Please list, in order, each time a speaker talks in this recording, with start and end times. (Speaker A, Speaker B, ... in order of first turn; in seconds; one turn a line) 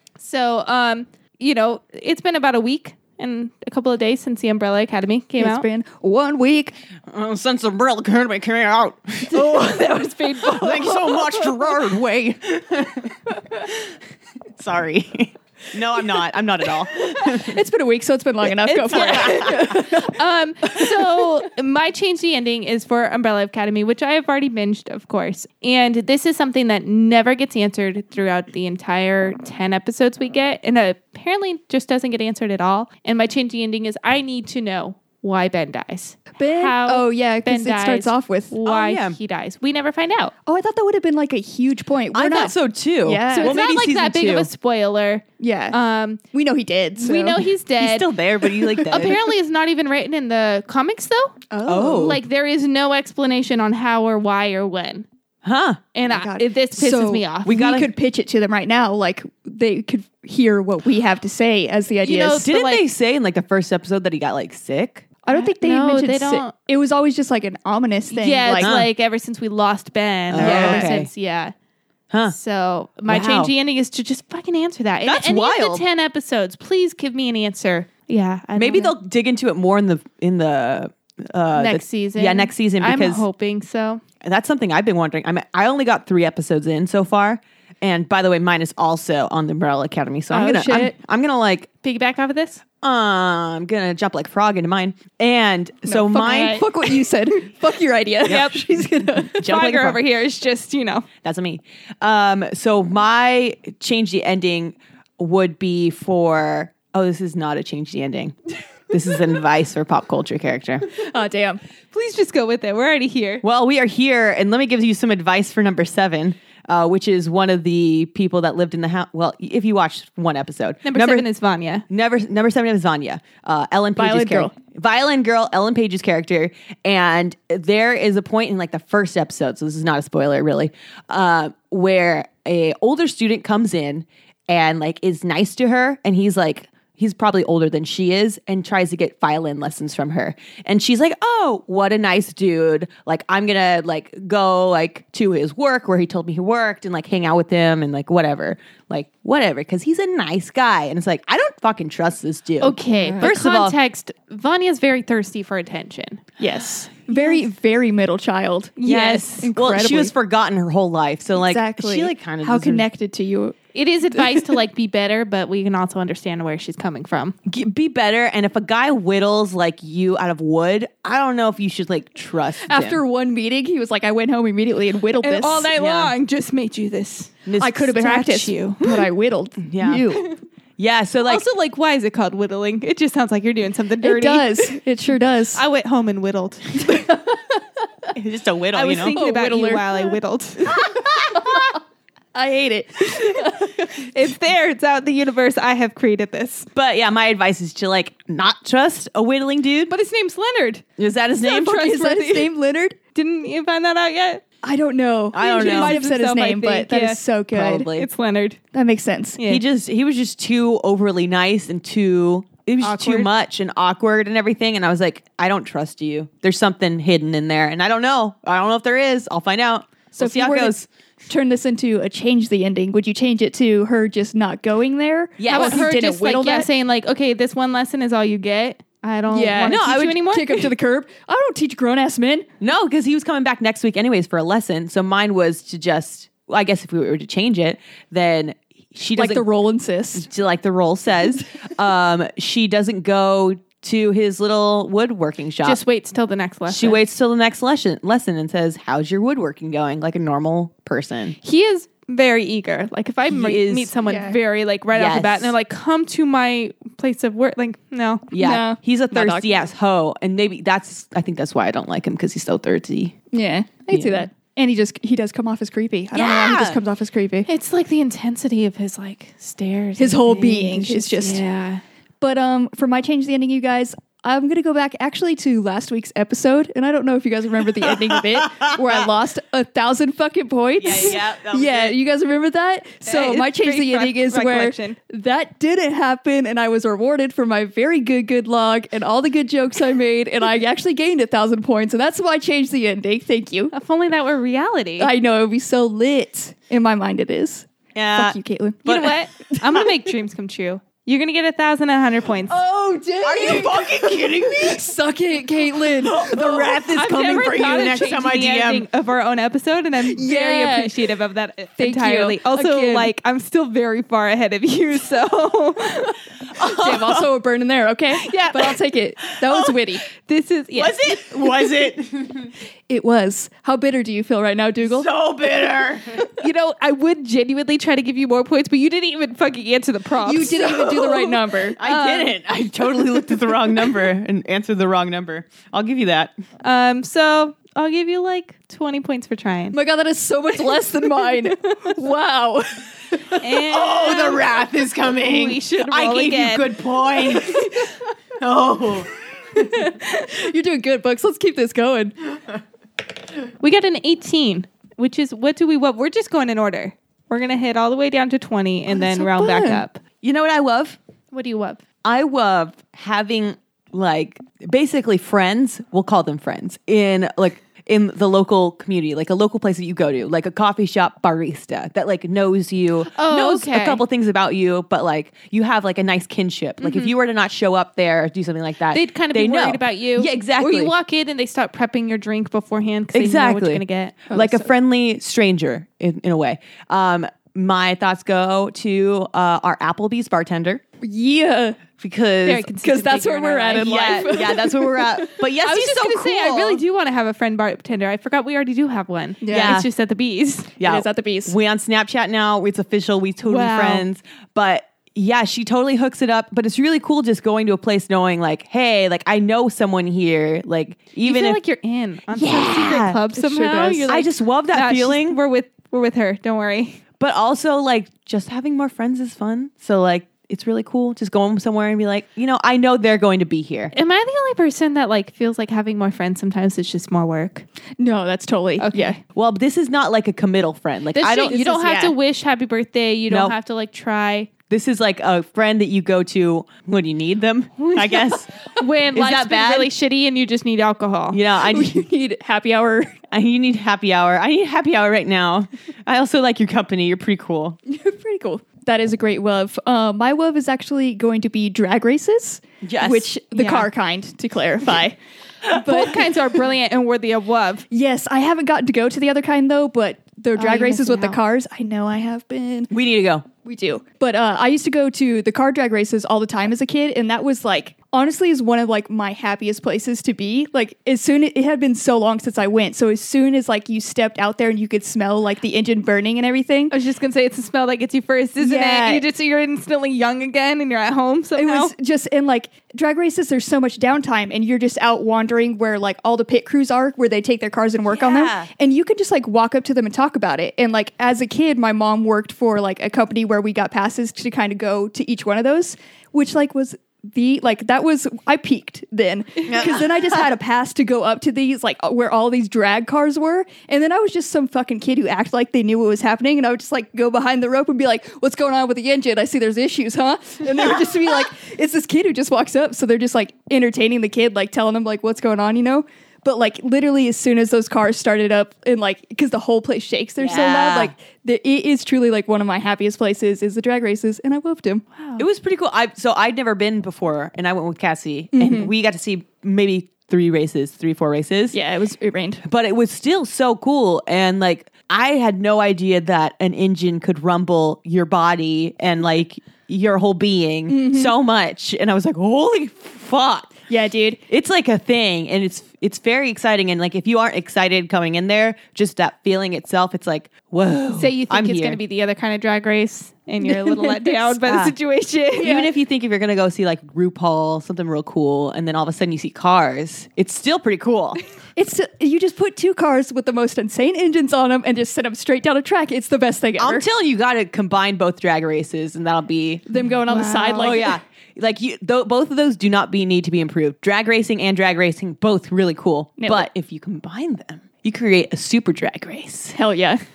Speaker A: 0.2-5.6
Speaker B: 5.4-6.8
Speaker C: 7.1-9.9
Speaker A: 9.3-11.6
Speaker C: 10.5-13.9
Speaker C: 14.5-17.6
Speaker B: 17.2-20.1
Speaker A: 18.6-40.3
Speaker C: 18.9-19.6
Speaker B: 36.4-38.5
Speaker C: 38.6-39.2
Speaker B: 40.5-43.6
Speaker C: 42.1-44.5
Speaker A: 43.3-46.2
Speaker B: 45.4-45.8
Speaker B: 46.3-47.5
Speaker A: 47.0-48.1
Speaker C: 47.8-49.2
Speaker B: 48.6-49.2
Speaker A: 48.9-55.1
Speaker B: 51.5-52.1
Speaker C: 51.6-52.2
Speaker C: 55.4-55.8
Speaker A: 55.9-57.5
Speaker B: 56.1-62.5
Speaker C: 57.5-57.9
Speaker A: 62.0-62.8
Speaker C: 62.3-65.1
Speaker B: 65.2-68.7
Speaker A: 65.3-66.5
Speaker A: 68.1-71.5
Speaker C: 68.6-68.9
Speaker C: 70.3-71.1
Speaker B: 70.4-70.9
Speaker A: 72.3-78.9
Speaker C: 73.1-73.5
Speaker C: 75.0-75.8
Speaker C: 78.5-83.2
Speaker A: 81.5-84.0
Speaker C: 84.2-91.7
Speaker B: 90.3-90.9
Speaker A: 91.8-92.6
Speaker C: 92.8-96.7
Speaker B: 95.8-99.3
Speaker C: 98.2-100.0
Speaker A: 98.2-101.0
Speaker C: 101.2-108.3
Speaker C: 108.9-110.9
Speaker B: 111.0-111.6
Speaker A: 111.9-113.4
Speaker C: 113.4-121.2
Speaker A: 120.8-121.8
Speaker C: 121.9-153.8
Speaker B: 124.0-124.5
Speaker A: 152.6-156.2
Speaker B: 153.0-153.3
Speaker B: 156.4-160.1
Speaker A: 157.1-157.4
Speaker A: 158.8-159.5
Speaker C: 158.9-162.8
Speaker B: 161.3-163.6
Speaker A: 163.7-167.3
Speaker B: 164.1-164.6
Speaker C: 167.5-173.0
Speaker B: 172.7-175.7
Speaker A: 175.2-179.0
Speaker C: 175.7-176.1
Speaker C: 177.4-177.8
Speaker B: 177.6-180.2
Speaker C: 179.7-180.2
Speaker C: 180.8-181.4
Speaker A: 181.2-184.8
Speaker B: 184.0-185.6
Speaker A: 185.5-187.2
Speaker B: 186.8-187.4
Speaker C: 188.1-189.1
Speaker A: 188.7-191.1
Speaker B: 189.1-190.2
Speaker C: 190.8-191.5
Speaker B: 191.3-191.7
Speaker B: 192.3-193.9
Speaker A: 193.1-196.7
Speaker C: 196.7-199.9
Speaker A: 199.9-200.8
Speaker C: 201.0-201.8
Speaker A: 201.4-202.5
Speaker B: 201.5-202.9
Speaker A: 203.1-204.4
Speaker B: 204.6-207.9
Speaker C: 205.3-206.0
Speaker A: 205.4-207.2
Speaker C: 207.5-208.1
Speaker A: 207.9-208.6
Speaker B: 208.7-209.4
Speaker A: 209.4-209.6
Speaker C: 209.4-220.9
Speaker A: 212.8-213.3
Speaker B: 220.1-220.7
Speaker B: 221.3-226.7
Speaker C: 225.4-225.9
Speaker A: 225.5-230.7
Speaker B: 229.3-232.5
Speaker C: 229.7-230.2
Speaker C: 232.6-239.4
Speaker B: 239.2-240.3
Speaker C: 240.1-245.8
Speaker A: 245.6-247.0
Speaker C: 246.7-251.3
Speaker A: 251.4-258.3
Speaker C: 253.3-253.9
Speaker B: 254.0-254.4
Speaker C: 254.9-255.5
Speaker C: 258.3-263.2
Speaker B: 258.4-259.5
Speaker B: 263.3-267.5
Speaker C: 263.9-264.2
Speaker C: 266.1-266.8
Speaker A: 267.5-271.8
Speaker B: 270.0-271.4
Speaker B: 272.2-293.7
Speaker C: 278.4-278.9
Speaker C: 280.8-282.0
Speaker A: 283.0-285.0
Speaker A: 293.7-295.1
Speaker B: 295.0-299.9
Speaker C: 297.9-299.1
Speaker A: 298.8-302.6
Speaker B: 302.5-306.7
Speaker C: 303.2-304.8
Speaker C: 305.9-308.9
Speaker A: 306.9-316.2
Speaker B: 310.0-311.1
Speaker B: 311.8-313.1
Speaker C: 316.5-317.3
Speaker B: 316.6-320.0
Speaker A: 318.1-318.8
Speaker C: 319.5-319.8
Speaker A: 320.1-321.5
Speaker C: 320.7-322.5
Speaker B: 322.9-325.1
Speaker C: 324.8-326.2
Speaker A: 326.3-331.1
Speaker B: 330.2-331.8
Speaker C: 330.7-336.3
Speaker A: 331.8-332.3
Speaker A: 336.6-339.8
Speaker B: 339.7-343.4
Speaker A: 343.4-344.4
Speaker C: 343.7-347.8
Speaker A: 345.1-346.8
Speaker B: 347.5-347.9
Speaker C: 348.4-349.6
Speaker B: 349.5-352.1
Speaker A: 353.6-360.0
Speaker B: 358.9-359.8
Speaker C: 360.2-361.0
Speaker A: 361.3-361.8
Speaker C: 362.0-380.9
Speaker A: 373.1-374.0
Speaker A: 376.8-377.1
Speaker A: 378.9-384.6
Speaker C: 383.1-390.8
Speaker B: 384.3-384.6
Speaker B: 391.0-391.8
Speaker C: 392.0-392.7
Speaker A: 392.4-394.4
Speaker B: 392.8-395.3
Speaker C: 393.8-396.8
Speaker A: 395.6-400.7
Speaker B: 399.4-399.8
Speaker C: 399.5-399.9
Speaker C: 400.8-411.6
Speaker B: 400.8-401.5
Speaker A: 403.4-404.0
Speaker A: 411.2-417.0
Speaker C: 412.3-413.2
Speaker B: 413.3-414.1
Speaker C: 414.1-415.4
Speaker C: 417.2-423.9
Speaker A: 423.9-427.6
Speaker B: 428.0-429.1
Speaker A: 428.8-429.2
Speaker C: 429.3-431.8
Speaker A: 431.1-434.5
Speaker B: 431.5-432.1
Speaker C: 433.3-433.5
Speaker C: 434.7-439.9
Speaker A: 437.9-441.4
Speaker C: 441.3-442.0
Speaker B: 441.6-443.2
Speaker C: 443.3-447.8
Speaker B: 447.9-455.2
Speaker C: 452.8-453.3
Speaker A: 453.5-453.9
Speaker B: 455.7-456.3
Speaker A: 455.7-457.9
Speaker B: 457.9-462.9
Speaker A: 460.6-461.4
Speaker C: 462.9-463.5
Speaker B: 463.6-476.9
Speaker A: 476.9-481.9
Speaker B: 478.6-479.2
Speaker B: 481.6-525.0
Speaker C: 488.1-488.7
Speaker C: 499.6-500.4
Speaker C: 520.4-521.1
Speaker A: 525.1-525.5
Speaker C: 525.4-531.8
Speaker B: 528.5-528.9
Speaker B: 531.7-532.6
Speaker C: 532.6-543.7
Speaker B: 540.9-541.3
Speaker B: 543.9-544.4
Speaker C: 544.5-552.0
Speaker A: 551.1-555.8
Speaker B: 553.6-554.2
Speaker C: 554.6-554.9
Speaker C: 555.6-561.4
Speaker B: 555.6-555.9
Speaker B: 561.8-567.0
Speaker C: 566.8-569.8
Speaker B: 569.9-571.1
Speaker A: 570.3-571.1
Speaker C: 570.4-579.8
Speaker B: 576.4-576.7
Speaker B: 579.7-580.2